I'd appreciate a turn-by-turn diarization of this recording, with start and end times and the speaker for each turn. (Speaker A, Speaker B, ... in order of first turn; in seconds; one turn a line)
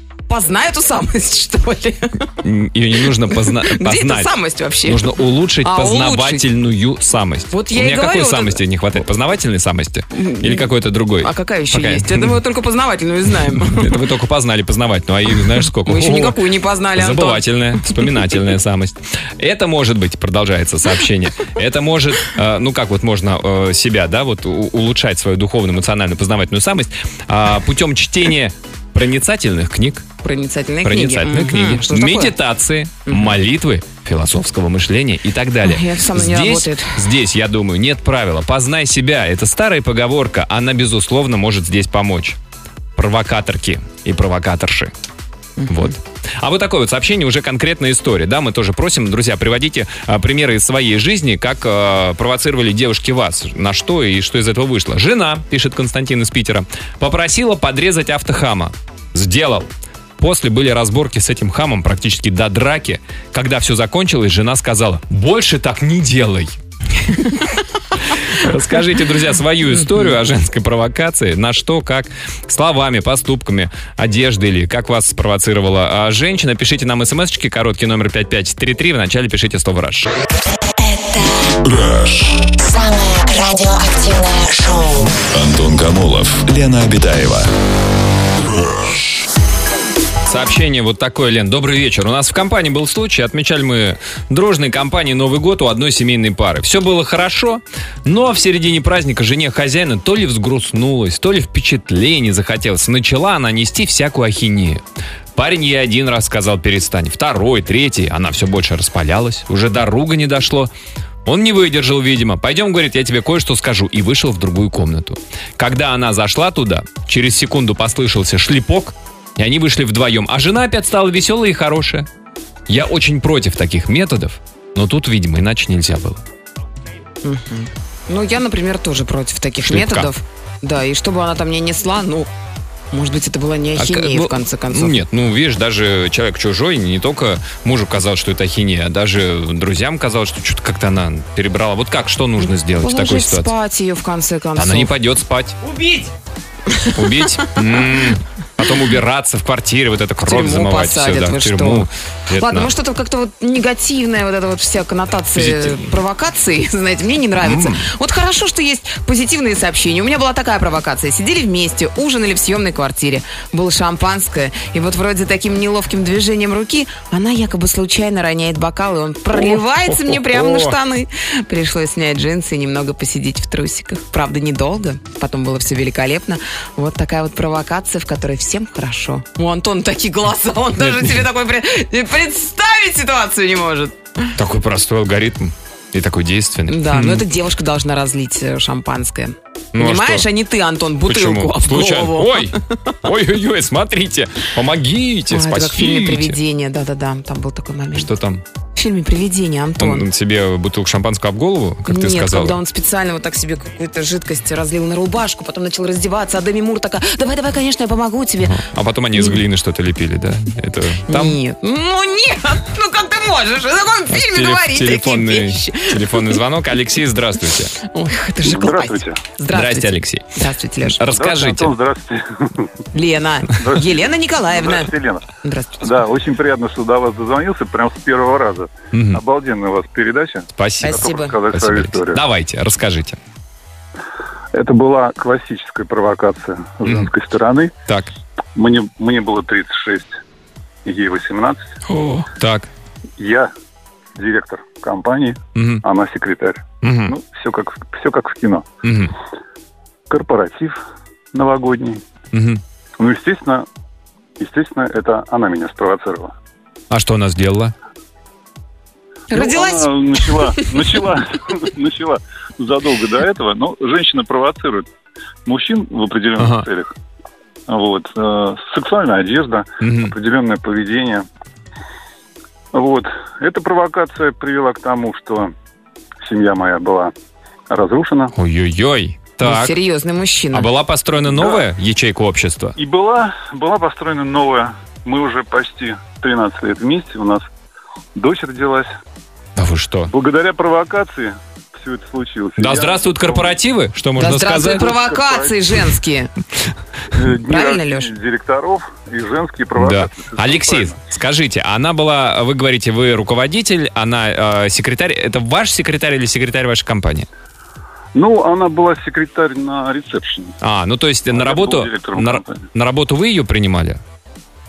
Speaker A: 0.3-2.3
Speaker B: 2.4-4.3
Speaker A: 3.3-6.5
Speaker B: 4.9-12.4
Speaker A: 7.5-8.6
Speaker A: 10.1-14.0
Speaker B: 13.6-16.4
Speaker A: 15.8-17.9
Speaker B: 17.0-30.1
Speaker A: 30.2-32.4
Speaker B: 30.9-42.4
Speaker A: 33.1-33.4
Speaker A: 35.6-37.1
Speaker B: 43.0-44.9
Speaker A: 45.6-45.9
Speaker B: 45.7-67.5
Speaker B: 68.1-80.1
Speaker C: 80.8-81.5
Speaker D: 81.6-82.5
Speaker C: 82.5-85.2
Speaker D: 85.3-87.5
Speaker D: 88.5-89.1
Speaker B: 90.3-104.8
Speaker B: 105.4-110.7
Speaker B: 111.2-122.1
Speaker B: 122.7-126.2
Speaker A: 127.2-132.3
Speaker B: 129.7-130.1
Speaker A: 132.9-135.0
Speaker B: 133.8-143.5
Speaker A: 142.4-144.9
Speaker B: 144.6-146.1
Speaker A: 146.7-147.1
Speaker B: 146.9-152.7
Speaker A: 150.2-184.3
Speaker B: 155.3-155.9
Speaker B: 157.4-157.9
Speaker B: 169.4-170.8
Speaker B: 180.8-181.2
Speaker B: 184.4-187.3
Speaker A: 186.7-192.6
Speaker B: 189.8-190.3
Speaker B: 191.1-196.4
Speaker A: 195.3-198.1
Speaker B: 198.0-198.4
Speaker A: 198.8-200.1
Speaker B: 199.8-202.6
Speaker A: 201.9-208.6
Speaker B: 208.5-211.4
Speaker A: 211.1-216.4
Speaker B: 214.1-217.8
Speaker A: 217.8-221.1
Speaker E: 218.4-219.2
Speaker B: 219.5-220.3
Speaker B: 220.9-221.8
Speaker E: 221.1-222.7
Speaker A: 222.9-224.9
Speaker E: 223.6-224.0
Speaker E: 224.5-225.3
Speaker A: 225.4-225.9
Speaker E: 225.8-232.2
Speaker B: 228.9-229.2
Speaker B: 230.6-233.2
Speaker A: 230.8-231.4
Speaker E: 234.5-237.7
Speaker E: 238.6-240.2
Speaker E: 240.8-241.7
Speaker B: 241.9-242.7
Speaker E: 243.2-243.5
Speaker E: 244.2-248.7
Speaker B: 245.6-245.8
Speaker B: 246.8-247.2
Speaker B: 248.8-249.1
Speaker E: 250.1-250.8
Speaker E: 251.3-252.0
Speaker B: 252.3-252.6
Speaker E: 253.0-253.7
Speaker E: 254.4-256.3
Speaker B: 256.9-257.7
Speaker A: 259.3-260.8
Speaker E: 259.3-264.9
Speaker E: 265.5-266.9
Speaker B: 266.4-266.7
Speaker E: 267.7-271.3
Speaker B: 269.8-270.1
Speaker E: 272.7-275.5
Speaker E: 276.2-277.1
Speaker E: 277.7-278.3
Speaker B: 278.3-279.8
Speaker A: 279.4-280.7
Speaker B: 280.5-282.8
Speaker E: 281.3-281.6
Speaker E: 282.8-287.4
Speaker E: 288.1-288.9
Speaker B: 289.6-290.1
Speaker E: 290.1-293.6
Speaker B: 292.6-294.9
Speaker A: 294.2-296.3
Speaker E: 294.7-295.6
Speaker E: 297.1-301.0
Speaker A: 297.4-298.1
Speaker B: 299.8-307.3
Speaker E: 308.1-310.6
Speaker B: 310.6-314.0
Speaker E: 311.3-312.6